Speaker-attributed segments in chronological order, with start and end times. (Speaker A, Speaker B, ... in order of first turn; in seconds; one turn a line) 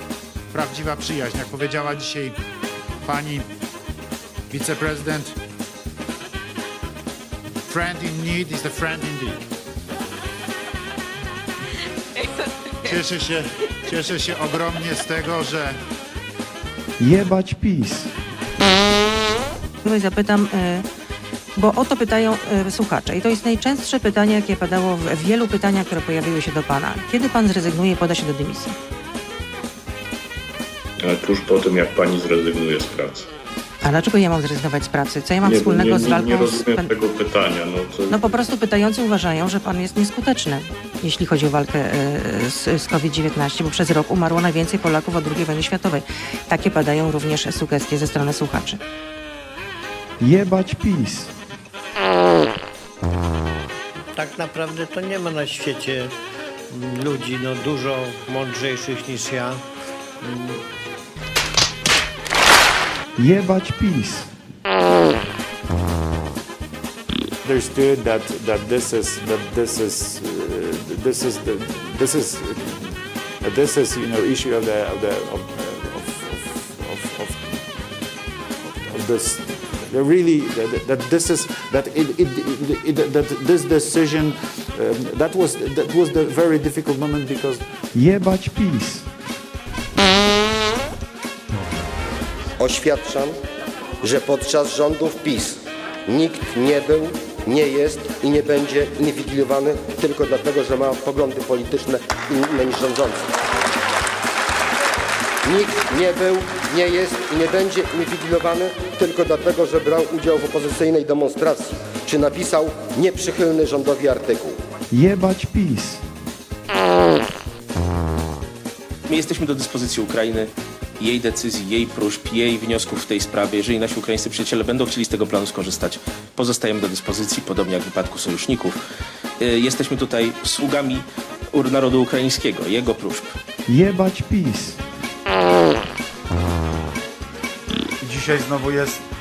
Speaker A: 0.5-2.3
Speaker A: 3.0-3.5
Speaker A: 4.5-5.3
Speaker A: 7.7-9.4
Speaker A: 12.8-15.8
Speaker B: 17.0-18.1
Speaker C: 19.8-20.8
Speaker C: 21.6-28.7
Speaker D: 31.0-33.3
Speaker C: 33.8-36.9
Speaker D: 35.4-38.3
Speaker C: 38.1-48.8
Speaker B: 50.2-51.3
Speaker E: 54.1-56.1
Speaker E: 56.7-59.6
Speaker E: 60.2-60.6
Speaker B: 63.2-64.3
Speaker F: 67.4-78.1
Speaker F: 78.6-87.6
Speaker B: 87.9-89.0
Speaker G: 92.6-93.3
Speaker G: 94.0-103.2
Speaker G: 105.4-114.5
Speaker B: 114.9-116.0
Speaker H: 119.1-128.8
Speaker H: 129.4-133.3
Speaker B: 133.7-134.8
Speaker G: 138.0-139.0